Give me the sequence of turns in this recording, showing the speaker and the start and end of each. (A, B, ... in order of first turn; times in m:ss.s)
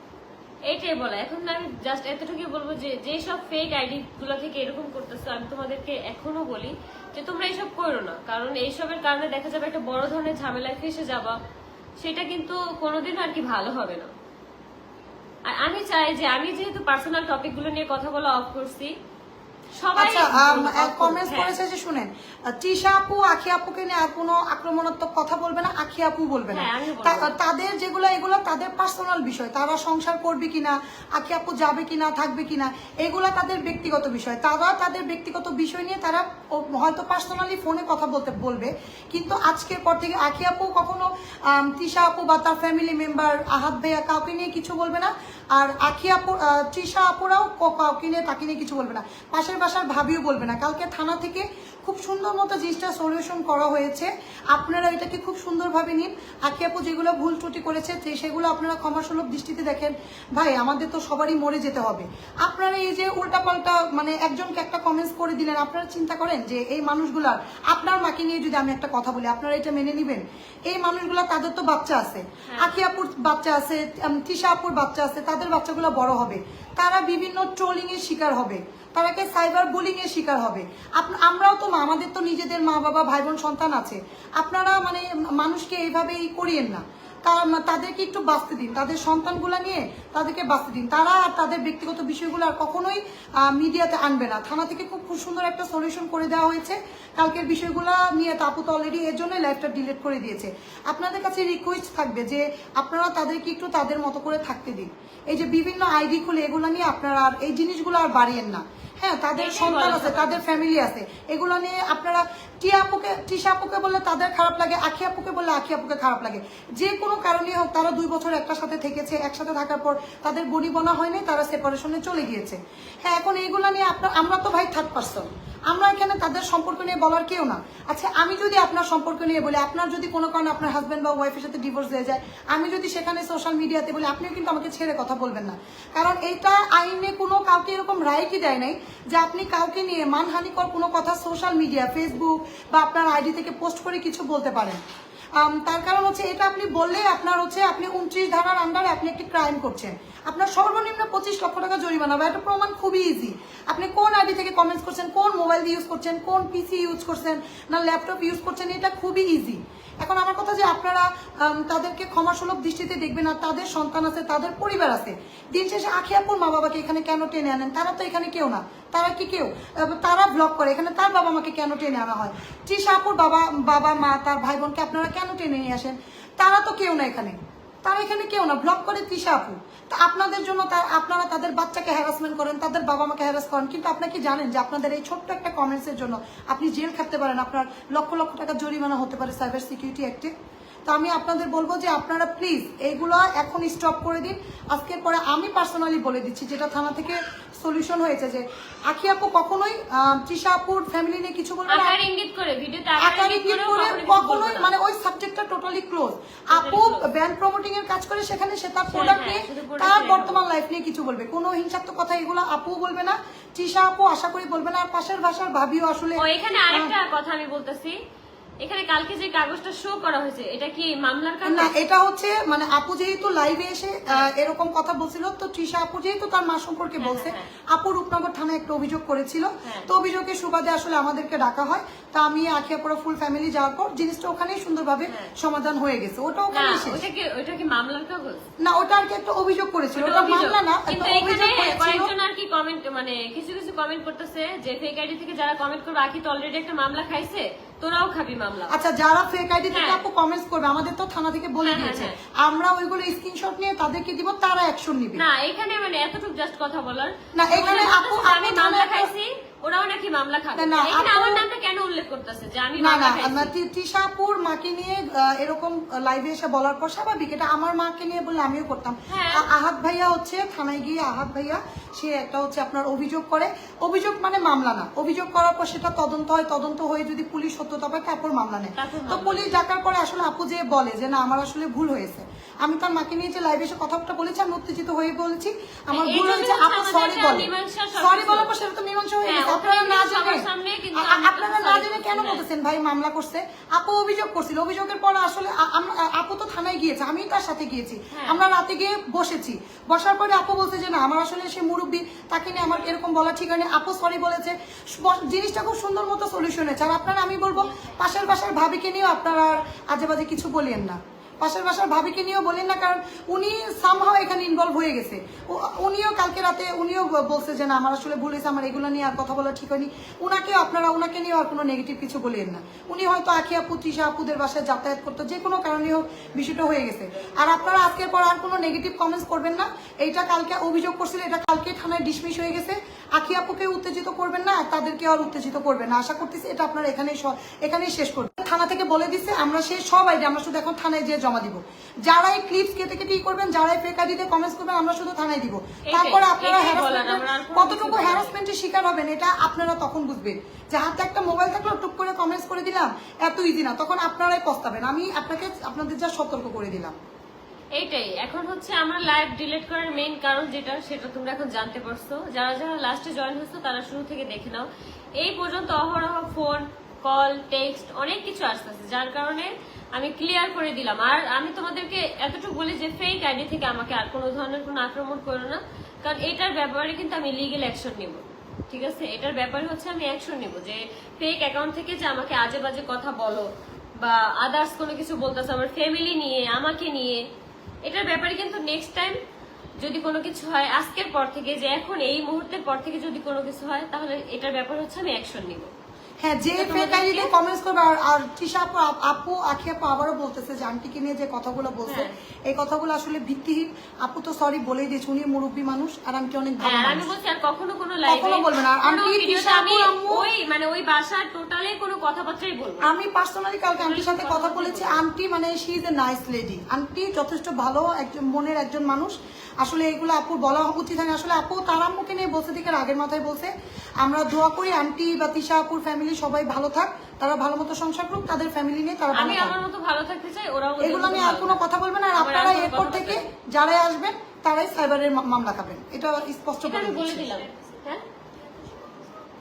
0:00.7-0:11.4 A
0:12.0-0:14.1 A
0:15.4-0:18.9 A
0:19.8-0:21.6 A
0:20.0-2:24.8 B
0:26.5-0:27.3 A
1:12.5-1:12.8 A
1:49.4-1:50.6 A
2:25.4-3:10.3 B
3:10.9-3:22.0 B
3:21.7-3:24.7 A
3:23.0-3:36.9 B
3:26.5-3:27.0 A
3:28.9-3:30.4 A
3:36.2-3:38.0 A
3:38.6-3:41.7 A
3:41.4-3:57.0 B
3:47.0-3:47.5 A
3:56.5-3:58.4 A
3:58.6-4:02.1 B
4:00.0-4:08.7 A
4:08.7-4:15.2 B
4:09.7-4:10.0 A
4:11.6-4:12.1 A
4:15.2-4:23.5 A
4:17.4-4:19.1 B
4:20.6-4:21.4 B
4:22.8-5:57.0 B
4:29.1-4:29.4 A
4:38.8-4:39.5 A
4:45.9-4:48.5 A
4:49.2-4:52.4 A
4:58.1-4:58.4 A
5:45.9-5:48.3 A
5:57.8-6:04.6 A
6:05.2-6:27.2 A
6:27.8-6:29.2 A
6:29.8-6:35.7 A
6:36.2-6:47.1 B
6:36.6-6:37.3 A
6:41.8-6:42.1 A
6:46.6-6:52.9 A
6:48.1-6:50.3 B
6:52.8-7:09.6 B
6:53.8-6:55.0 A
7:09.1-7:11.6 A
7:10.8-7:17.4 B
7:12.1-7:13.2 A
7:16.6-7:18.0 A